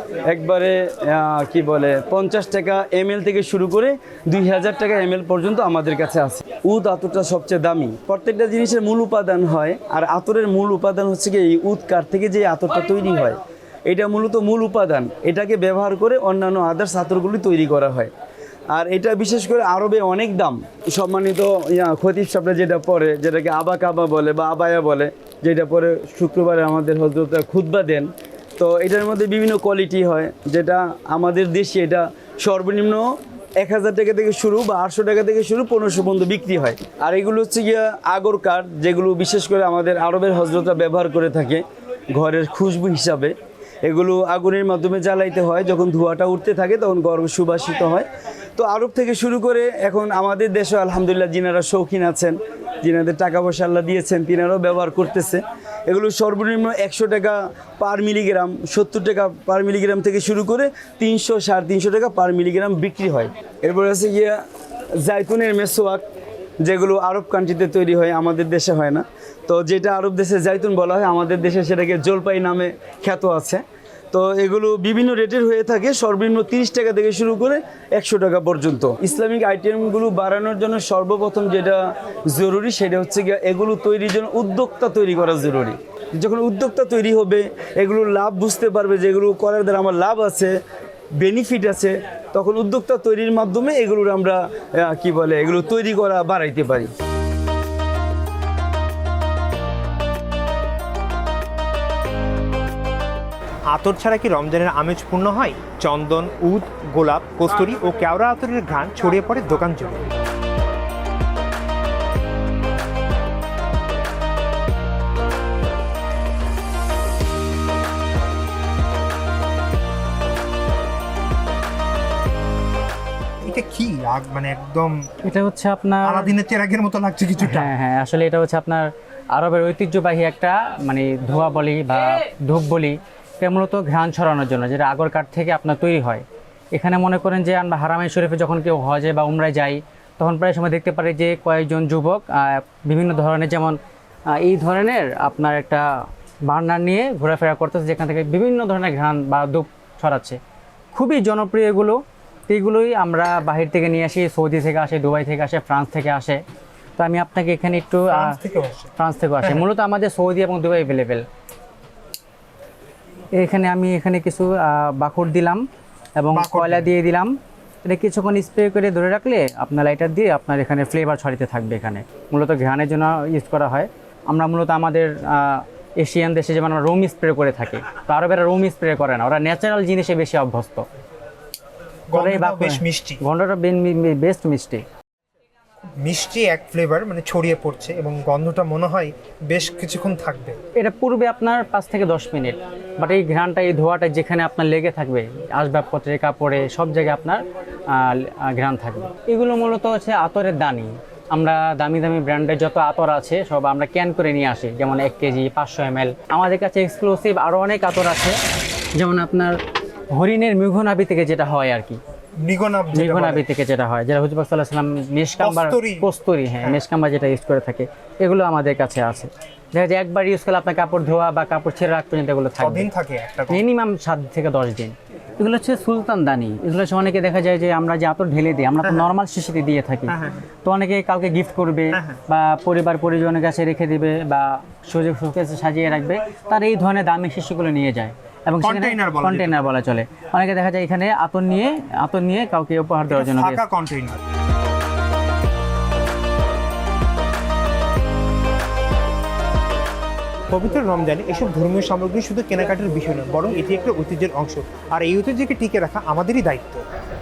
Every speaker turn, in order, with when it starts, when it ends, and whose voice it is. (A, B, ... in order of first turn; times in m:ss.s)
0:00.3-0:18.1 A
0:18.7-0:28.1 A
0:28.6-0:33.0 A
0:33.6-0:41.6 A
0:42.1-0:43.3 A
0:43.8-0:48.0 A
0:48.6-1:04.3 A
1:05.0-1:06.0 A
1:06.6-1:21.8 A
1:22.3-1:30.5 A
1:31.2-1:36.9 A
1:43.7-1:50.0 B
2:03.4-2:05.0 B
2:05.2-2:06.3 C
2:06.0-2:07.7 B
2:07.4-2:23.8 C
2:24.4-2:25.9 C
2:26.4-2:30.4 C
2:30.9-2:36.4 C
2:37.0-2:38.3 C
2:38.1-2:38.9 B
2:39.0-2:41.2 C
2:43.4-2:45.6 C
2:46.2-3:00.8 C
2:46.3-2:46.9 B
3:02.1-3:03.2 B
3:02.1-3:04.8 C
3:06.0-3:10.6 B
3:10.8-3:17.4 C
3:17.9-3:28.4 C
3:29.0-3:29.6 C
3:30.1-3:32.0 C
3:32.4-3:33.4 B
3:32.9-3:42.9 C
3:35.4-3:36.1 B
3:42.6-3:43.6 B
3:43.5-4:03.6 C
3:48.8-3:49.1 B
3:50.1-3:50.3 B
3:51.9-3:52.2 B
3:58.6-3:59.7 B
4:03.1-4:04.2 B
4:10.5-4:16.8 B